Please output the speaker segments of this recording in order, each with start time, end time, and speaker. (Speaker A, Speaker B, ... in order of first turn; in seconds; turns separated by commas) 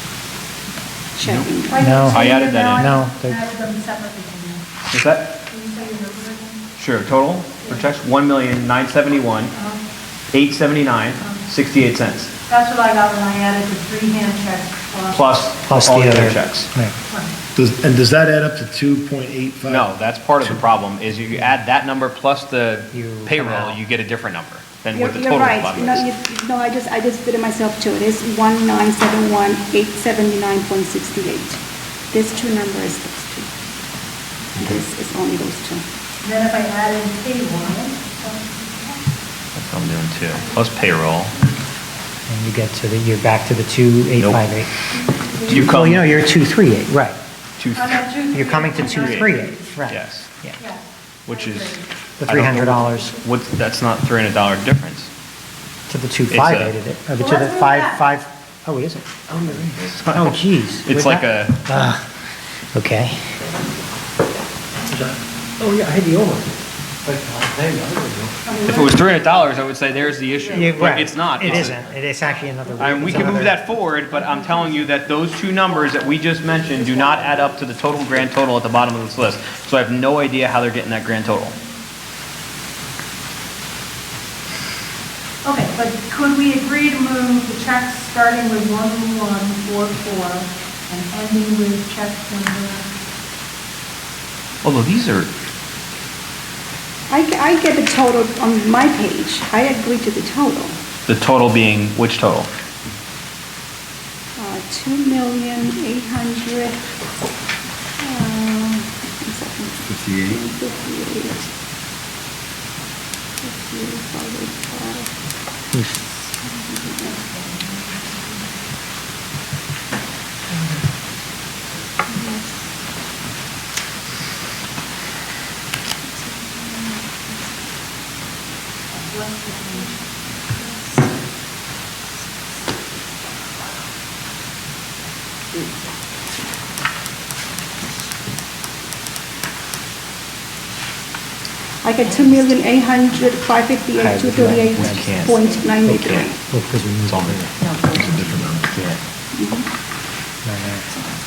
Speaker A: 1.1-1.8, Speaker B: 1.7-4.7, Speaker C: 1.8-2.2, Speaker D: 2.1-2.9, Speaker C: 2.7-3.4, Speaker D: 4.9-5.4, Speaker B: 5.5-6.7, Speaker D: 6.8-9.5, Speaker B: 9.5-9.8, Speaker D: 10.3-12.3, Speaker B: 11.2-11.5, Speaker B: 12.5-15.2, Speaker D: 15.1-16.7, Speaker C: 15.7-16.9, Speaker B: 17.1-17.4, Speaker E: 17.6-20.6, Speaker D: 19.7-26.1, Speaker C: 22.9-23.8, Speaker A: 24.9-31.6, Speaker A: 32.1-33.5, Speaker A: 34.6-35.8, Speaker B: 36.2-39.0, Speaker D: 39.5-41.3, Speaker C: 42.3-44.7, Speaker D: 44.2-44.5, Speaker B: 45.1-45.6, Speaker C: 45.4-47.2, Speaker D: 45.5-46.1, Speaker D: 47.6-48.0, Speaker B: 47.7-49.3, Speaker C: 48.3-50.6, Speaker D: 48.8-49.3, Speaker D: 49.9-50.3, Speaker B: 50.6-51.9, Speaker D: 51.2-55.1, Speaker C: 52.2-53.2, Speaker C: 55.9-62.1, Speaker D: 56.3-56.7, Speaker B: 57.2-58.1, Speaker D: 59.3-61.6, Speaker C: 62.7-63.2, Speaker F: 65.6-66.5, Speaker F: 67.0-68.3, Speaker B: 68.5-69.0, Speaker D: 68.7-71.8, Speaker C: 70.5-73.6, Speaker D: 72.8-81.6, Speaker B: 85.4-92.9, Speaker D: 94.6-95.3, Speaker A: 97.1-100.8, Speaker D: 101.1-102.5, Speaker A: 104.4-106.8, Speaker A: 108.0-111.5, Speaker D: 109.9-110.4, Speaker A: 113.4-115.1, Speaker C: 115.7-116.0, Speaker A: 116.4-117.2, Speaker A: 122.1-122.5, Speaker A: 126.2-127.3, Speaker B: 129.1-130.1, Speaker A: 141.8-146.4, Speaker C: 144.0-145.3, Speaker D: 144.7-146.3, Speaker C: 146.4-147.5, Speaker D: 147.1-149.0, Speaker A: 149.3-149.7, Speaker C: 150.4-150.9